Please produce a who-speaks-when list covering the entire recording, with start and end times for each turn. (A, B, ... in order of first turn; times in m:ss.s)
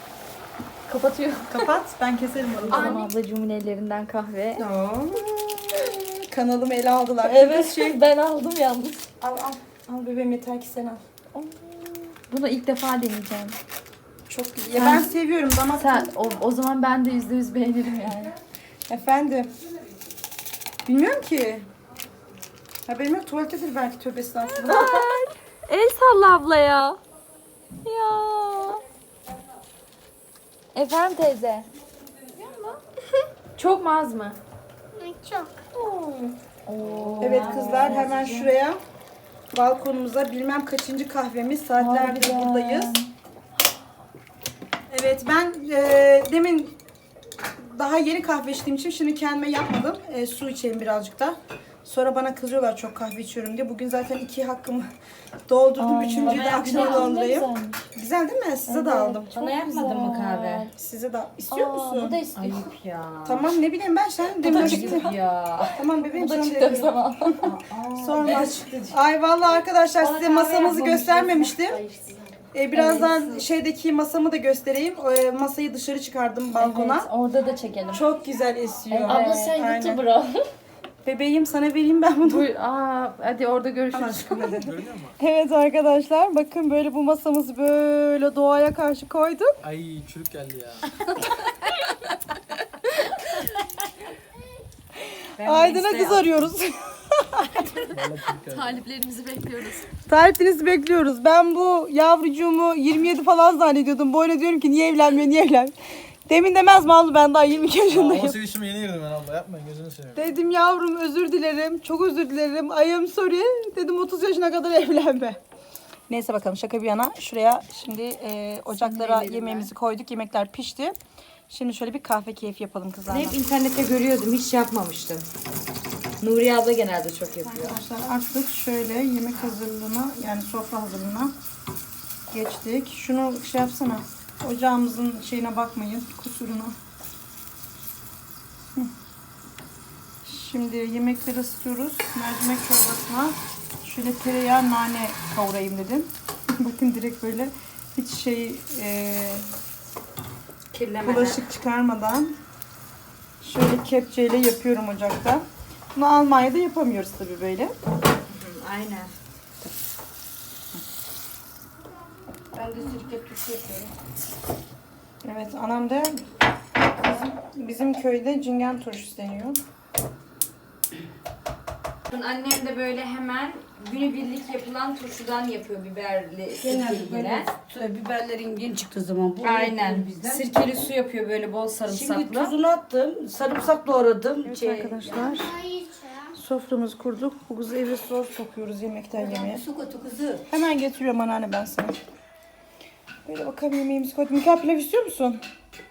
0:00.9-0:01.8 A
0:01.5-0:03.1 B
0:02.7-0:04.6 A
0:04.6-0:08.0 B
0:07.2-0:09.0 A
0:09.2-0:11.0 B
0:11.3-0:13.6 A
0:14.3-0:16.1 B
0:14.8-0:15.1 A
0:15.7-0:18.4 A
0:18.9-0:19.5 B
0:20.9-0:21.7 B
0:22.9-0:25.1 B
0:24.6-0:27.0 A
0:27.8-0:28.8 A
0:30.7-0:31.7 A
0:33.6-0:34.4 A
0:34.9-0:35.7 C
0:35.8-0:36.3 B
0:36.6-0:38.5 A
0:37.2-0:38.8 B
0:39.5-0:42.9 B
0:41.8-0:43.1 A
0:44.9-0:46.7 B
0:47.6-0:54.9 B
0:55.5-0:59.4 B
0:55.8-0:57.8 A
0:56.2-0:57.0 D
0:58.7-1:00.7 A
0:59.3-1:00.7 D
1:00.7-1:02.2 B
1:01.5-1:02.7 A
1:02.2-1:03.5 D
1:03.2-1:05.1 B
1:04.4-1:05.1 A
1:04.4-1:05.7 D
1:05.7-1:07.4 B
1:06.0-1:07.5 A
1:07.4-1:08.9 D
1:08.0-1:11.8 B
1:10.0-1:13.1 D
1:12.5-1:17.1 B
1:12.8-1:13.4 A
1:16.6-1:18.0 A
1:17.9-1:20.0 B
1:19.0-1:20.4 A
1:21.0-1:22.5 B
1:22.2-1:24.6 A
1:23.9-1:29.5 B
1:24.6-1:25.2 E
1:29.6-1:30.9 E
1:35.4-1:36.5 D
1:35.4-1:37.8 B
1:37.9-1:38.8 E
1:38.5-1:39.8 A
1:40.0-1:45.7 B
1:46.3-1:48.4 B
1:47.9-1:50.3 E
1:50.1-1:55.4 B
1:56.1-2:01.0 B
1:58.7-1:59.7 D
2:01.5-2:03.4 B
2:03.1-2:05.2 D
2:06.2-2:07.8 D
2:07.4-2:11.3 B
2:12.3-2:16.8 B
2:20.2-2:29.5 B
2:30.7-2:31.4 D
2:31.0-2:32.3 B
2:33.4-2:37.7 B
2:38.3-2:39.1 D
2:42.5-2:43.9 D
2:45.2-2:46.2 B
2:46.8-2:49.6 B
2:52.1-2:57.5 D
2:56.5-3:00.5 F
2:59.4-3:02.5 D
3:01.8-3:04.9 F
3:04.4-3:05.5 B
3:04.6-3:05.0 D
3:05.0-3:06.3 C
3:06.3-3:09.6 B
3:09.1-3:10.4 F
3:10.5-3:12.0 B
3:13.2-3:15.4 B